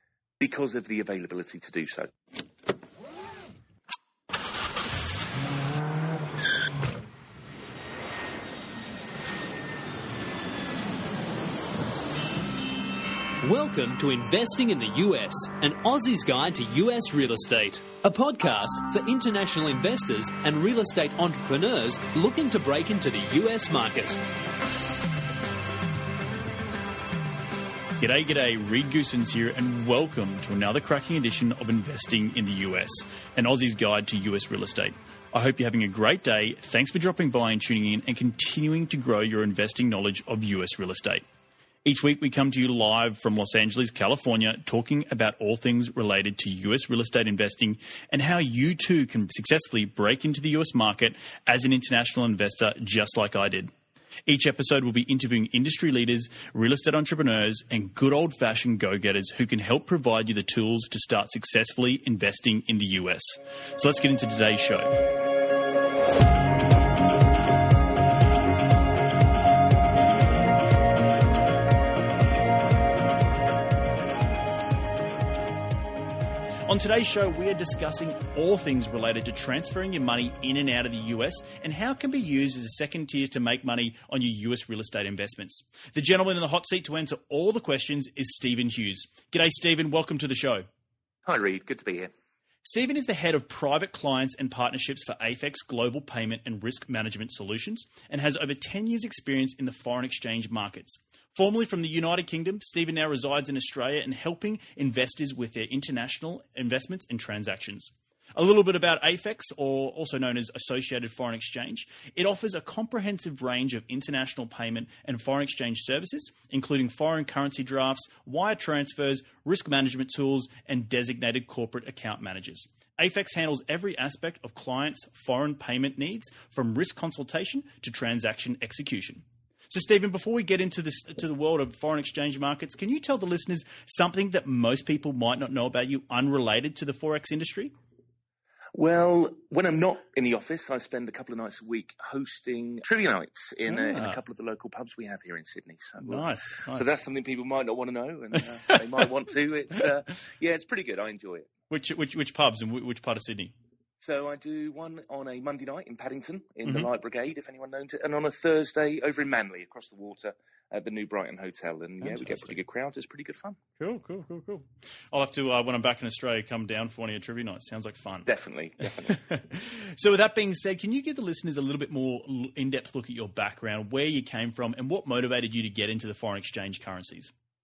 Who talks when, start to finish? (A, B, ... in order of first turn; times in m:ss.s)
0:00.4-0:02.1 A
0:13.4-0:24.2 B
0:28.0-0:41.2 C
0:41.8-0:53.7 C
0:54.3-1:05.0 C
1:16.6-1:30.7 C
1:31.2-1:32.1 A
1:32.6-2:17.7 C
2:18.7-2:31.5 A
2:23.7-2:24.2 C
2:26.0-2:26.9 C
2:31.7-2:33.5 C
2:34.0-2:43.6 A
2:42.0-2:42.5 C
2:43.8-2:48.3 C
2:48.2-2:49.2 A
2:49.1-2:57.3 C